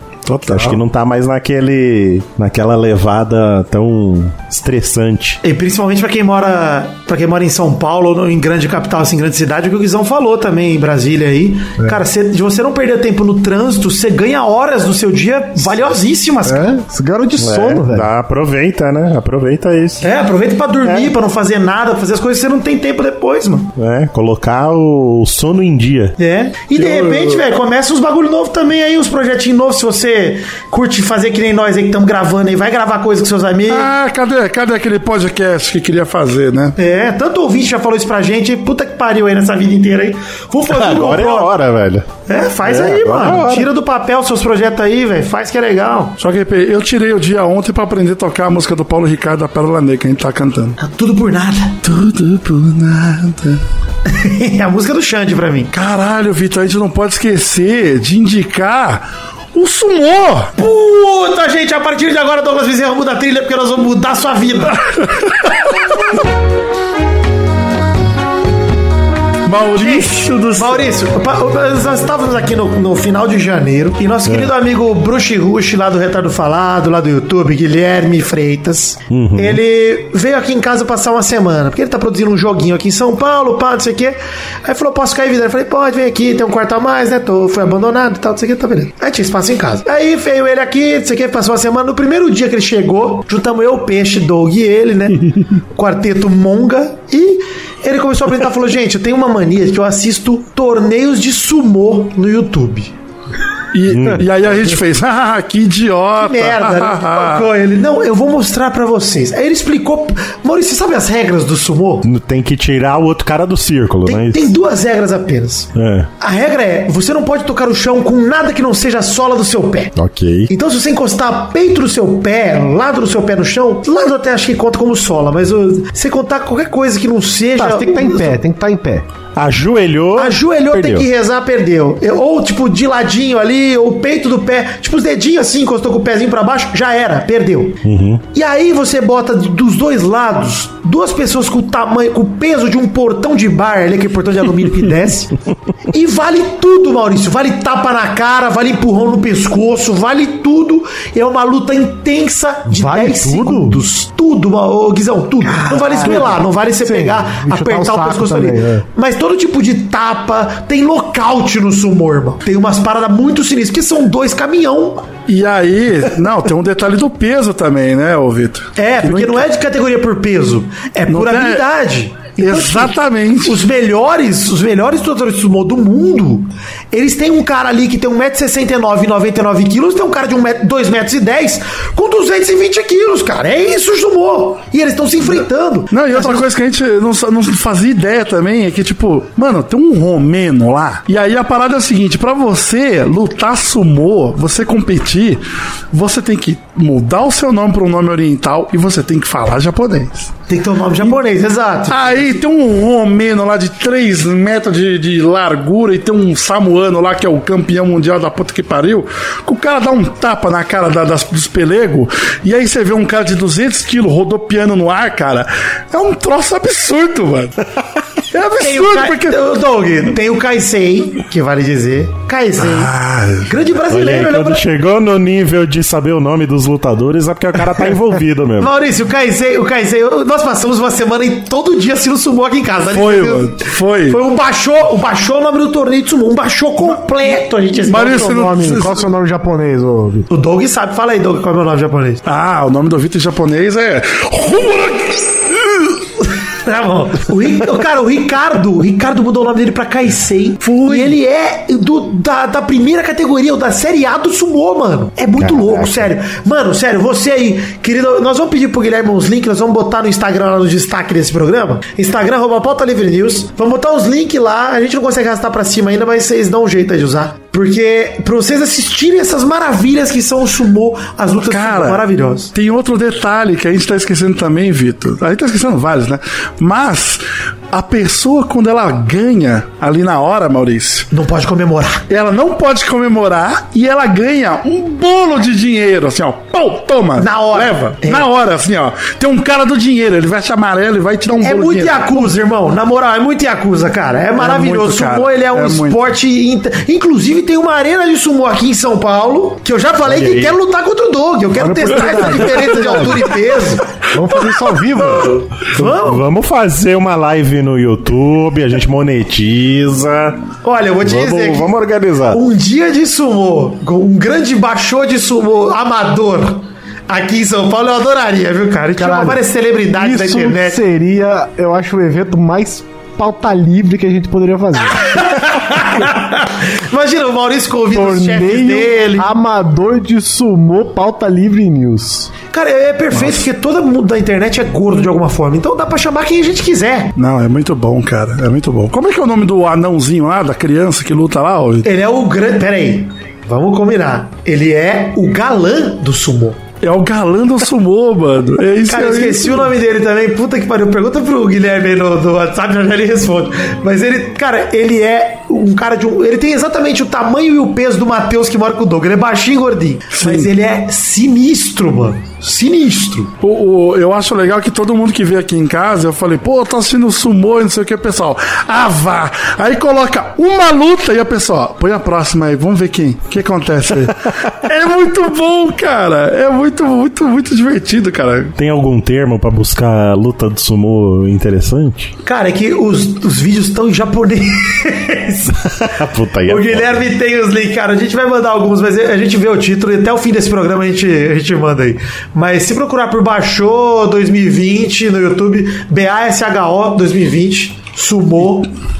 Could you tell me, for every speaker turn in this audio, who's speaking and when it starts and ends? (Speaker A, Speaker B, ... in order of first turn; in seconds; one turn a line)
Speaker A: 0.2-0.8
Speaker B: 0.5-5.4
Speaker C: 5.4-16.7
Speaker D: 16.4-18.1
Speaker B: 17.4-20.0
Speaker C: 20.0-23.7
Speaker B: 20.8-21.1
Speaker B: 23.8-26.1
Speaker C: 26.2-33.9
Speaker A: 26.7-27.4
Speaker A: 33.7-36.7
Speaker C: 36.8-41.5
Speaker B: 40.7-42.1
Speaker C: 42.3-46.1
Speaker B: 42.6-43.7
Speaker A: 46.2-50.8
Speaker C: 50.8-51.8
Speaker A: 51.8-53.6
Speaker C: 54.0-55.7
Speaker A: 55.7-60.5
Speaker C: 60.6-64.8
Speaker A: 69.4-70.9
Speaker C: 69.7-102.9
Speaker B: 74.2-74.5
Speaker B: 79.1-79.6
Speaker A: 103.7-107.5
Speaker B: 103.9-104.2
Speaker C: 106.2-112.0
Speaker B: 112.0-114.5
Speaker C: 114.0-115.7
Speaker B: 115.7-116.1
Speaker C: 116.2-119.9
Speaker B: 120.0-120.5
Speaker C: 120.5-128.4
Speaker D: 127.5-129.1
Speaker B: 129.3-131.1
Speaker C: 130.2-137.8
Speaker B: 137.8-138.2
Speaker C: 138.3-145.3
Speaker C: 145.9-165.1
Speaker D: 152.7-153.8
Speaker D: 155.5-158.8
Speaker A: 165.3-169.4
Speaker C: 168.8-186.4
Speaker A: 171.1-171.6
Speaker A: 172.4-173.6
Speaker A: 185.9-200.3
Speaker C: 200.5-202.3
Speaker A: 201.9-217.6
Speaker A: 218.3-219.3
Speaker C: 218.6-222.9
Speaker A: 222.6-223.5
Speaker C: 223.4-224.6
Speaker B: 223.9-228.7
Speaker C: 228.6-238.6
Speaker A: 232.9-234.2
Speaker A: 237.8-239.0
Speaker D: 238.1-240.3
Speaker C: 240.3-242.2
Speaker A: 242.2-246.0
Speaker C: 246.6-272.5
Speaker A: 250.6-251.2
Speaker B: 255.4-256.1
Speaker A: 271.4-281.1
Speaker C: 281.1-282.1
Speaker A: 282.1-292.3
Speaker C: 287.2-288.3
Speaker C: 291.4-303.9
Speaker A: 294.4-296.0
Speaker B: 300.0-300.6
Speaker D: 301.6-303.3
Speaker D: 304.1-305.4
Speaker C: 305.7-306.2
Speaker B: 305.8-310.5
Speaker C: 310.6-311.7
Speaker B: 311.0-312.4
Speaker C: 312.3-320.8
Speaker D: 318.9-325.4
Speaker C: 325.0-329.3
Speaker D: 327.9-332.3
Speaker C: 332.5-337.1
Speaker A: 333.1-333.4
Speaker A: 337.1-341.9
Speaker C: 341.8-346.6
Speaker A: 346.8-349.7
Speaker C: 348.9-363.3
Speaker A: 360.1-360.5
Speaker A: 363.4-378.5
Speaker B: 378.6-382.1
Speaker C: 382.2-385.7
Speaker B: 385.8-387.0
Speaker C: 386.4-398.7